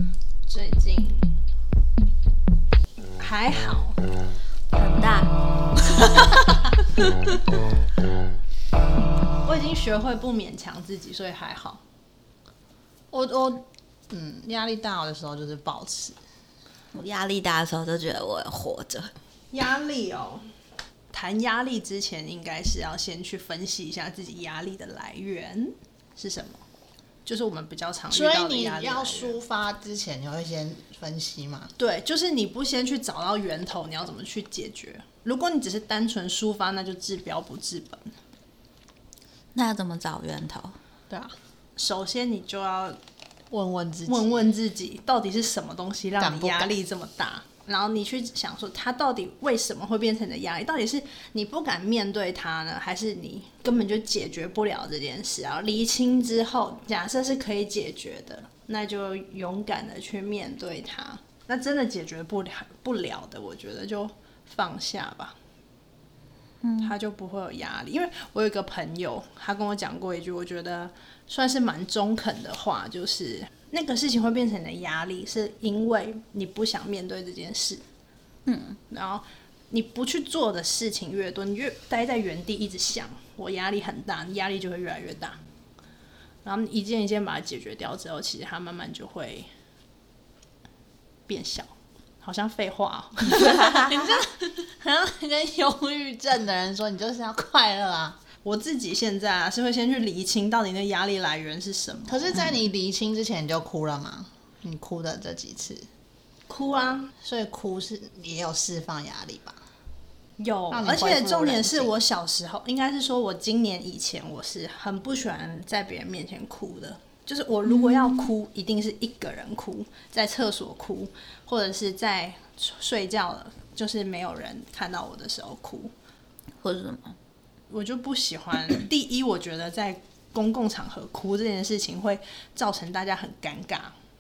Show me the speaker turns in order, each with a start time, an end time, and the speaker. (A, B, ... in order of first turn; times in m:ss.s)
0:00.5-0:01.3 A
0:03.2-0:04.0 A
0:04.7-0:05.3 B
0:06.0-0:06.2 B
0:09.4-0:11.8 A
0:13.1-0:16.2 C
0:16.9-0:19.1 B
0:19.5-0:20.5 A
0:21.1-0:26.6 A
0:27.2-0:29.4 A
0:28.1-0:31.7 C
0:31.8-0:38.1 A
0:39.5-0:40.8 B
0:41.1-0:41.4 C
0:41.8-0:43.0 A
0:43.5-0:44.4 C
0:44.1-1:05.4 A
0:46.2-0:46.7 C
1:06.6-1:07.0 B
1:06.8-1:17.8 A
1:18.5-1:18.8 B
1:18.9-1:25.4 A
1:26.4-1:29.5 A
1:31.3-1:34.2 A
1:33.3-1:34.2 B
1:33.9-1:38.2 C
1:38.4-1:42.5 A
1:42.1-1:45.9 C
1:46.5-1:47.1 A
1:47.2-1:49.6 C
1:50.4-2:05.9 A
1:50.7-1:51.9 C
1:57.7-1:58.3 B
2:06.6-2:07.2 B
2:07.7-2:14.0 A